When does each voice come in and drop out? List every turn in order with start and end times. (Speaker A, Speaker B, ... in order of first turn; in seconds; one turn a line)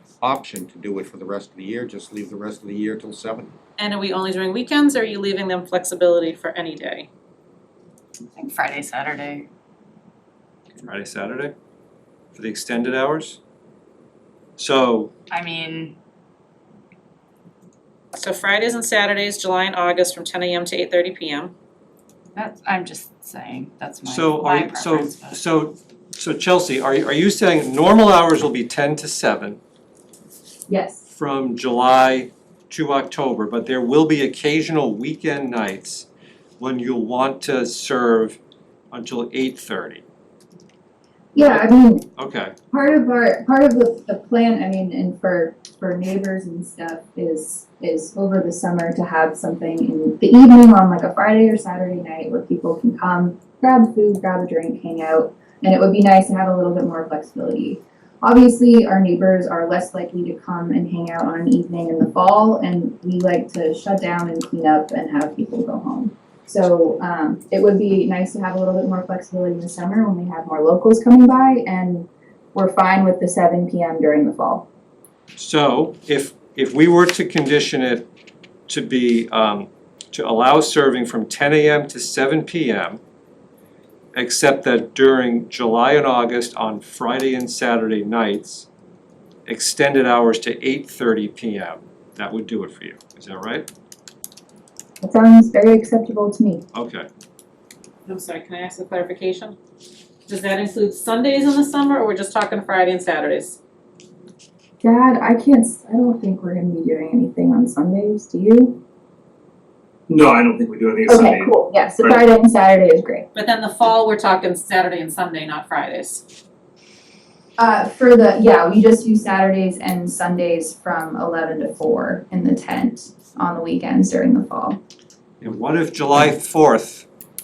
Speaker A: 0.2-3.5
Speaker B: 3.8-7.1
Speaker C: 8.3-9.5
Speaker D: 10.8-11.5
Speaker D: 12.3-13.4
Speaker D: 14.6-15.1
Speaker C: 15.3-15.9
Speaker B: 18.1-21.5
Speaker C: 22.4-25.4
Speaker D: 24.0-29.6
Speaker E: 30.7-31.1
Speaker D: 31.1-36.1
Speaker D: 36.6-38.4
Speaker D: 38.9-40.0
Speaker E: 41.3-42.1
Speaker D: 42.2-42.5
Speaker E: 42.7-74.7
Speaker D: 75.4-78.1
Speaker D: 78.7-83.0
Speaker D: 84.2-88.7
Speaker D: 89.5-93.7
Speaker E: 95.0-96.7
Speaker D: 96.7-97.1
Speaker B: 98.1-99.6
Speaker B: 100.3-103.6
Speaker E: 104.8-108.8
Speaker F: 110.1-112.2
Speaker E: 111.1-113.3
Speaker B: 113.3-116.3
Speaker E: 117.6-124.8
Speaker D: 125.4-127.1